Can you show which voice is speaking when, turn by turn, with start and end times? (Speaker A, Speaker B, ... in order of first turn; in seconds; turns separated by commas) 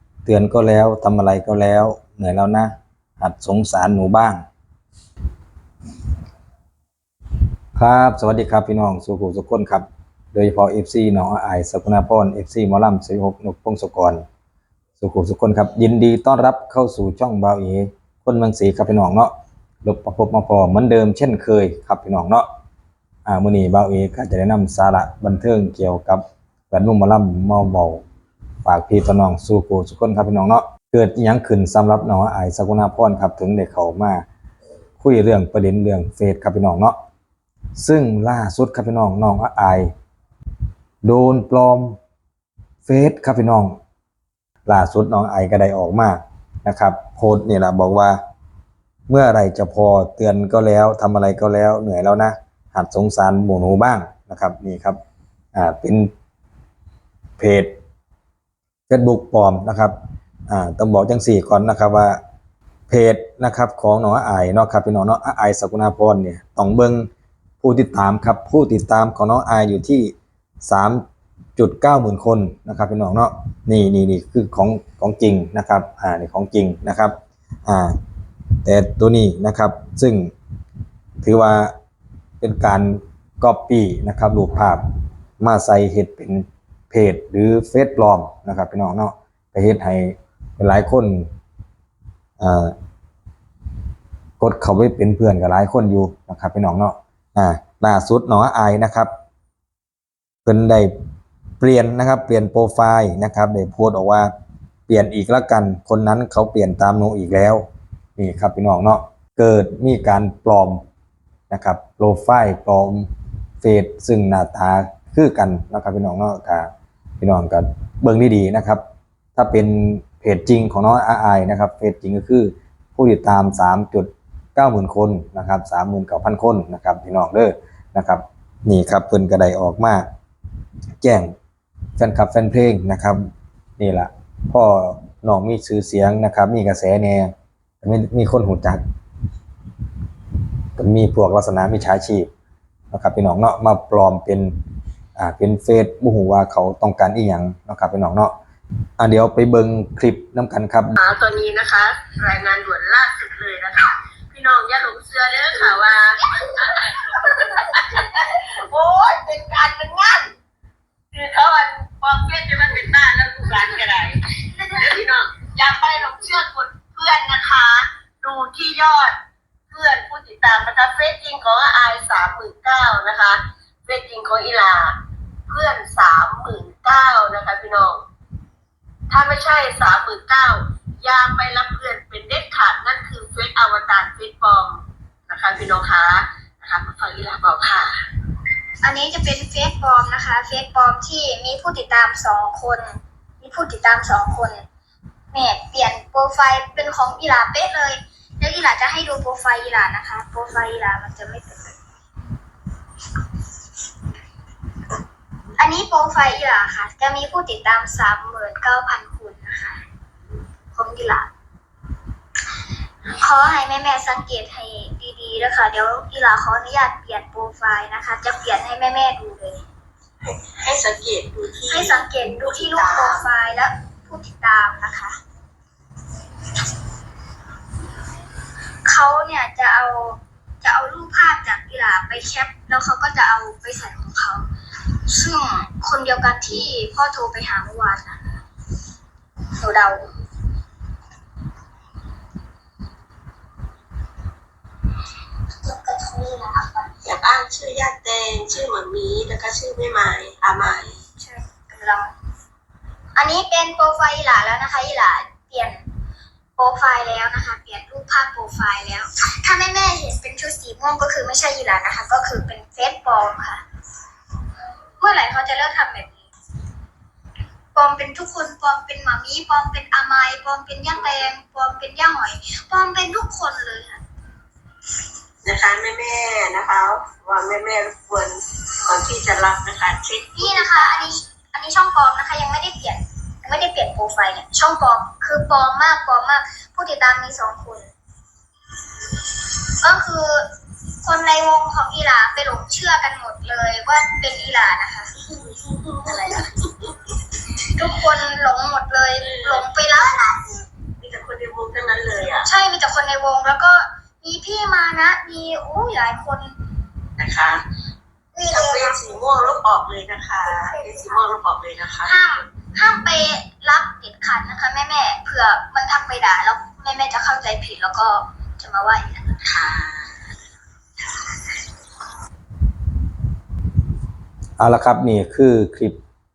Speaker A: 0.2-4.4, Speaker A: 7.8-14.2, Speaker A: 15.0-19.3, Speaker A: 19.8-22.5, Speaker A: 23.3-28.0, Speaker A: 28.6-34.2, Speaker A: 35.0-37.0, Speaker A: 37.8-39.9, Speaker A: 41.0-42.0, Speaker A: 42.9-43.8, Speaker A: 44.7-48.2, Speaker A: 49.1-55.0, Speaker A: 55.5-56.1, Speaker A: 57.4-57.7, Speaker A: 58.9-60.0, Speaker A: 60.5-62.2, Speaker A: 62.9-67.1, Speaker A: 67.6-71.0, Speaker A: 71.6-78.0, Speaker A: 78.6-80.3, Speaker A: 81.2-81.8, Speaker A: 82.4-84.8, Speaker A: 85.4-91.3, Speaker A: 92.4-92.8, Speaker A: 94.4-99.1, Speaker A: 100.5-100.9, Speaker A: 101.6-104.3, Speaker A: 104.9-107.7, Speaker A: 108.2-110.8, Speaker A: 111.5-113.1, Speaker A: 113.6-118.8, Speaker A: 119.4-130.1, Speaker A: 131.0-131.3, Speaker A: 132.0-138.8, Speaker A: 140.8-142.3, Speaker A: 142.9-144.5, Speaker A: 145.2-148.3, Speaker A: 149.0-151.0, Speaker B: 151.0-160.3, Speaker B: 161.1-169.2, Speaker B: 169.7-175.0, Speaker B: 175.5-178.0, Speaker B: 179.1-187.9, Speaker C: 188.8-194.7, Speaker C: 195.3-201.8, Speaker C: 205.6-209.8, Speaker C: 210.7-211.3, Speaker C: 213.1-219.6, Speaker B: 220.2-223.3, Speaker C: 221.7-225.2, Speaker C: 228.8-238.2, Speaker C: 239.6-240.1, Speaker C: 245.6-246.9, Speaker B: 247.0-251.0, Speaker C: 251.2-252.1, Speaker C: 253.2-255.9, Speaker C: 256.6-263.6, Speaker C: 265.0-266.3, Speaker C: 267.8-274.0, Speaker B: 275.4-281.1, Speaker C: 280.4-287.9, Speaker C: 289.7-290.5, Speaker C: 291.0-295.3, Speaker B: 295.4-296.9, Speaker C: 296.0-296.5, Speaker C: 297.7-300.7, Speaker B: 299.2-299.7, Speaker B: 301.0-302.5, Speaker C: 302.4-306.6, Speaker B: 307.2-307.6, Speaker C: 308.4-309.2, Speaker B: 308.5-312.4, Speaker C: 310.5-311.1, Speaker C: 312.0-319.4, Speaker B: 319.4-320.3, Speaker A: 324.6-326.0